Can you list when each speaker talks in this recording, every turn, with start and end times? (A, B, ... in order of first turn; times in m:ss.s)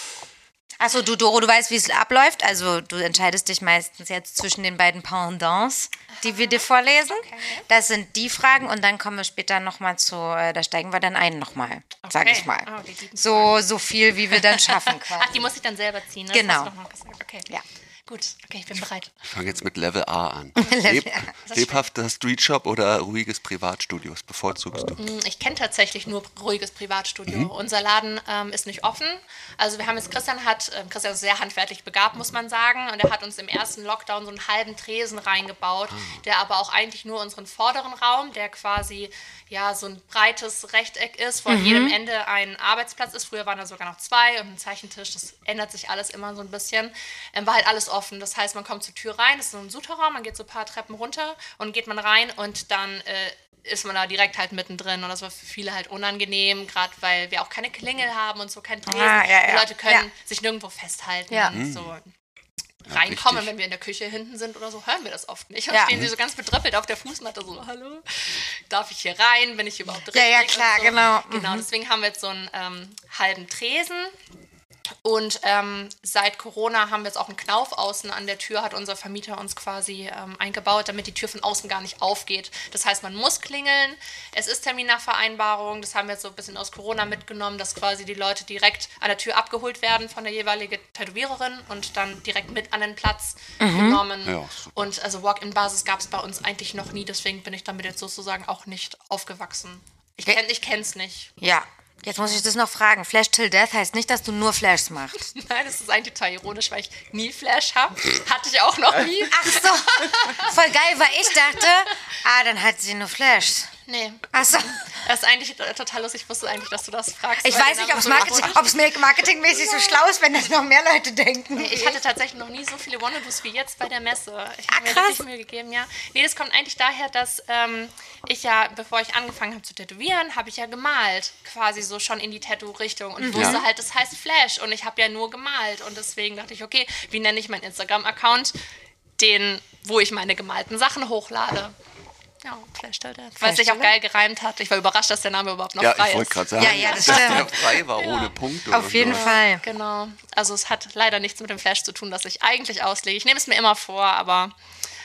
0:00.8-0:15.5 A
0:06.2-0:07.7 B
0:12.0-0:13.6 B
0:14.3-0:17.5 B
0:16.3-0:16.7 A
0:18.1-0:19.1 B
0:19.3-0:25.0 C
0:20.6-0:21.3 A
0:21.5-0:21.9 B
0:25.0-1:02.1 B
0:41.5-0:42.0 A
0:58.9-1:00.1 A
1:01.3-1:01.6 A
1:01.5-1:01.9 C
1:02.8-1:14.2 B
1:02.9-1:03.5 C
1:05.7-1:06.0 A
1:10.1-1:11.7 A
1:15.0-1:41.3 B
1:33.6-1:34.0 A
1:34.2-1:34.8 C
1:41.4-1:45.3 A
1:42.1-1:42.4 B
1:45.3-1:50.6 B
1:49.3-1:53.7 A
1:53.9-1:58.8 B
1:54.3-1:54.8 A
1:57.4-2:02.0 A
1:59.5-2:00.0 B
2:01.6-2:18.6 B
2:04.7-2:05.2 A
2:13.2-2:13.6 A
2:13.3-2:13.6 C
2:19.2-2:21.8 B
2:22.4-2:28.4 B
2:23.4-2:24.0 A
2:25.8-2:29.4 C
2:26.6-2:27.5 A
2:28.7-2:29.7 A
2:29.0-2:34.5 B